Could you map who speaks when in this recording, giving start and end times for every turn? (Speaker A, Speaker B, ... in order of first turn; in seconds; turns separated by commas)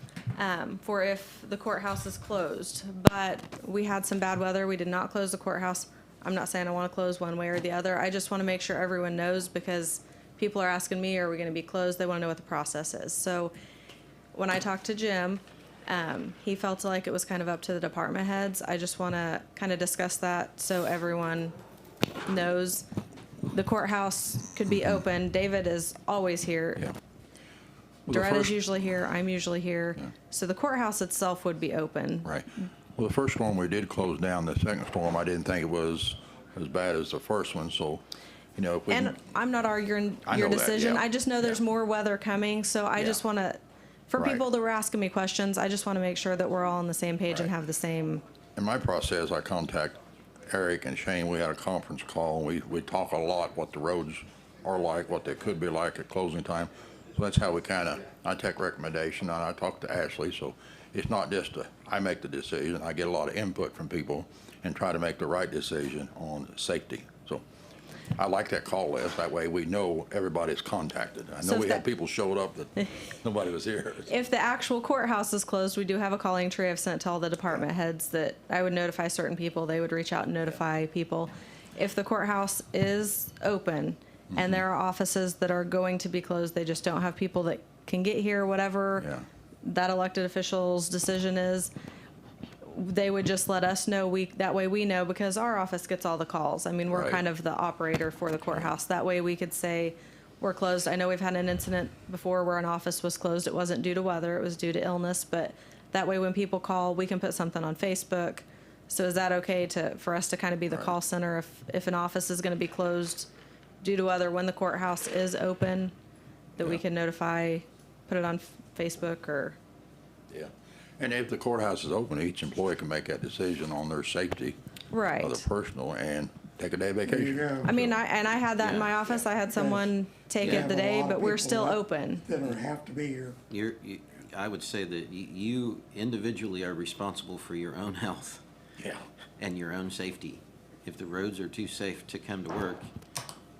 Speaker A: 0.3-13.5, Speaker A: 14.3-21.5, Speaker A: 22.2-22.8, Speaker A: 23.5-26.9, Speaker B: 28.1-28.6, Speaker A: 28.1-32.6, Speaker B: 33.0-38.0, Speaker B: 38.5-39.2, Speaker A: 38.9-48.2, Speaker B: 40.2-41.0, Speaker B: 43.0-43.2, Speaker B: 44.1-44.4, Speaker B: 48.5-67.4, Speaker B: 68.2-74.1, Speaker A: 71.4-71.8, Speaker A: 74.1-89.1, Speaker B: 84.3-84.6, Speaker B: 89.0-89.2, Speaker A: 89.6-91.7, Speaker A: 92.6-113.3, Speaker B: 96.9-97.2, Speaker A: 113.8-115.9, Speaker A: 116.5-119.6, Speaker B: 120.3-124.6, Speaker A: 124.9-125.4, Speaker B: 125.2-128.0, Speaker C: 127.0-127.7, Speaker A: 127.6-132.2, Speaker D: 128.6-129.3, Speaker C: 129.5-129.9, Speaker D: 130.4-130.7, Speaker C: 130.4-133.3, Speaker D: 133.5-138.4, Speaker D: 139.4-142.9